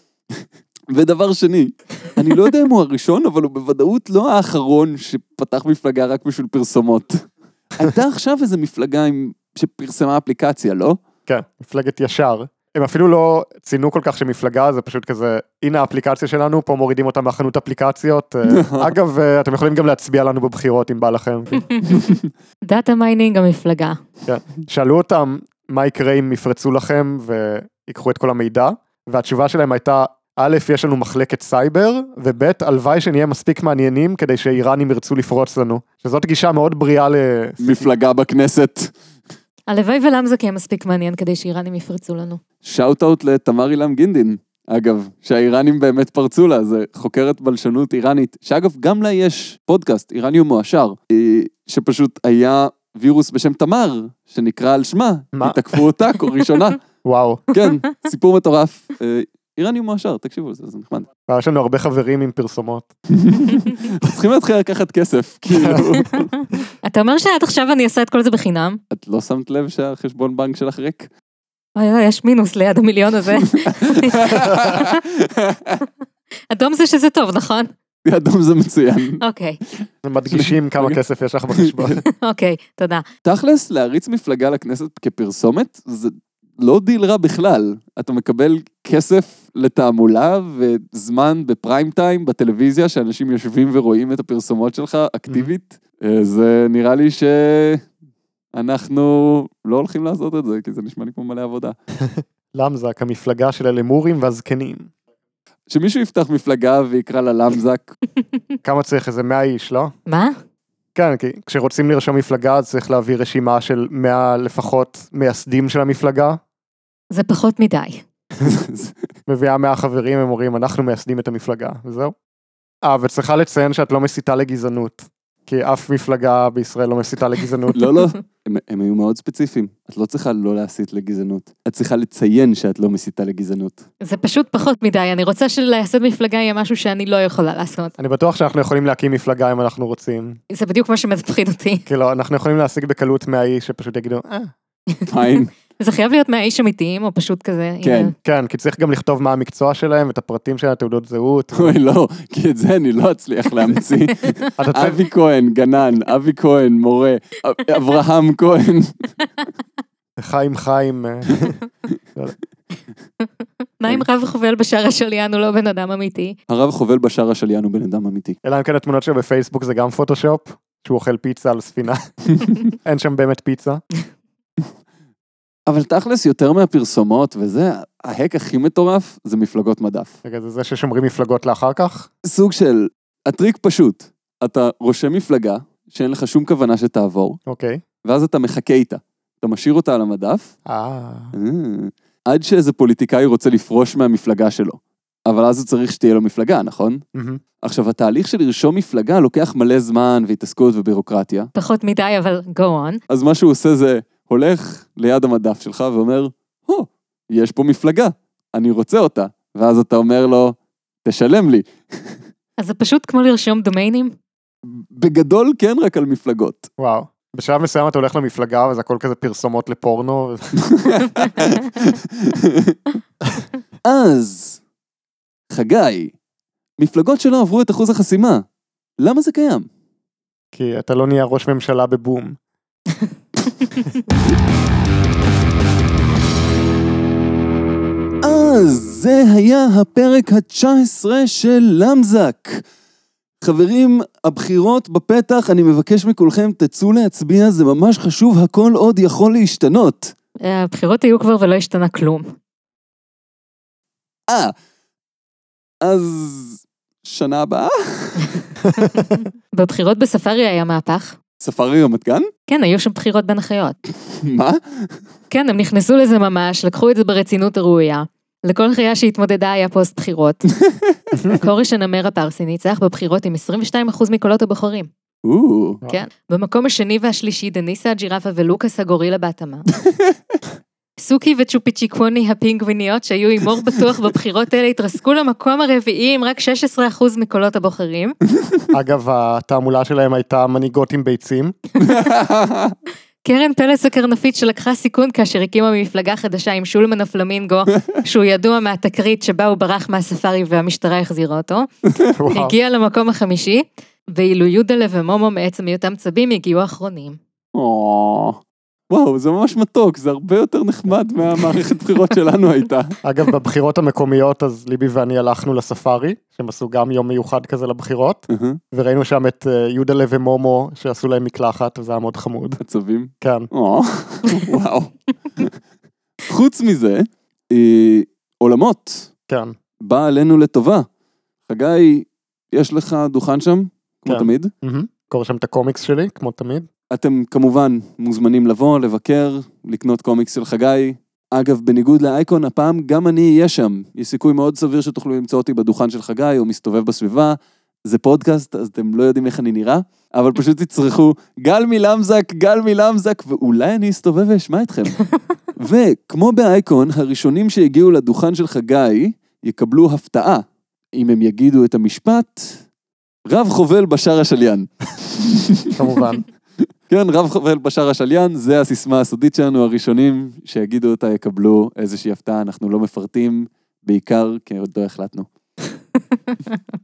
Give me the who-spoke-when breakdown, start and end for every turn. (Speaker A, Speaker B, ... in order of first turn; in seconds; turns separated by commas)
Speaker A: 0.3-11.0, Speaker B: 11.3-21.6, Speaker A: 18.5-18.9, Speaker C: 21.5-24.0, Speaker B: 24.2-37.9, Speaker A: 37.6-38.9, Speaker C: 39.7-42.4, Speaker A: 42.6-56.8, Speaker B: 57.0-57.4, Speaker A: 57.5-61.1, Speaker B: 61.3-62.9, Speaker A: 63.1-66.3, Speaker B: 65.5-65.8, Speaker C: 66.8-68.8, Speaker A: 68.9-71.1, Speaker C: 71.8-75.0, Speaker A: 73.3-75.8, Speaker C: 76.5-77.7, Speaker A: 78.0-79.2, Speaker C: 79.2-79.6, Speaker B: 80.0-82.0, Speaker A: 80.3-81.0, Speaker A: 81.5-82.0, Speaker C: 82.1-83.0, Speaker A: 83.2-97.8, Speaker A: 98.5-101.8, Speaker B: 102.0-104.9, Speaker A: 105.7-107.9, Speaker B: 108.6-109.9, Speaker C: 110.1-110.4, Speaker B: 110.9-116.4, Speaker C: 117.1-118.0, Speaker A: 118.4-118.9, Speaker B: 119.3-122.1, Speaker B: 122.8-127.8, Speaker A: 127.7-133.8, Speaker C: 134.0-137.9, Speaker B: 138.0-140.4, Speaker C: 140.5-141.8, Speaker B: 141.9-144.5, Speaker C: 144.9-148.1, Speaker A: 145.1-145.5, Speaker A: 147.8-148.1, Speaker B: 148.2-151.7, Speaker A: 151.5-158.9, Speaker B: 154.6-155.0, Speaker B: 160.2-161.6, Speaker C: 163.8-166.4, Speaker A: 166.5-168.4, Speaker B: 168.4-172.1, Speaker B: 172.7-173.8, Speaker A: 175.7-180.1, Speaker B: 180.2-182.1, Speaker A: 182.2-187.4, Speaker B: 187.5-187.8, Speaker A: 188.0-190.5, Speaker B: 190.7-191.3, Speaker A: 191.3-197.0, Speaker B: 197.1-197.4, Speaker A: 197.6-201.5, Speaker C: 201.6-203.0, Speaker A: 203.1-212.2, Speaker C: 212.6-214.1, Speaker A: 214.6-216.7, Speaker B: 216.8-220.6, Speaker A: 220.7-222.8, Speaker A: 223.8-224.6, Speaker A: 225.5-226.1, Speaker A: 226.8-228.4, Speaker A: 229.0-229.7, Speaker B: 230.5-232.4, Speaker A: 238.2-242.6, Speaker A: 243.4-250.1, Speaker C: 250.4-252.3, Speaker A: 254.3-254.5, Speaker A: 255.8-258.3, Speaker C: 259.0-261.2, Speaker A: 261.4-262.3, Speaker C: 262.5-263.8, Speaker A: 264.0-265.0, Speaker C: 265.3-270.4, Speaker A: 270.6-270.9, Speaker C: 271.2-274.9, Speaker A: 275.2-275.8, Speaker C: 275.9-279.7, Speaker C: 281.0-288.1, Speaker B: 288.7-291.5, Speaker A: 291.8-292.8, Speaker C: 293.2-301.7, Speaker B: 302.1-302.5, Speaker C: 302.3-307.2, Speaker A: 307.5-312.9, Speaker B: 313.0-322.6, Speaker A: 318.3-318.6, Speaker A: 322.6-325.5, Speaker B: 323.2-323.5, Speaker A: 326.2-329.1, Speaker B: 329.3-329.5, Speaker A: 329.8-330.9, Speaker A: 331.5-334.5, Speaker B: 334.1-336.7, Speaker A: 336.9-355.0, Speaker A: 355.6-362.6, Speaker A: 363.2-365.7, Speaker B: 365.7-366.2, Speaker A: 366.9-375.3, Speaker C: 376.1-376.6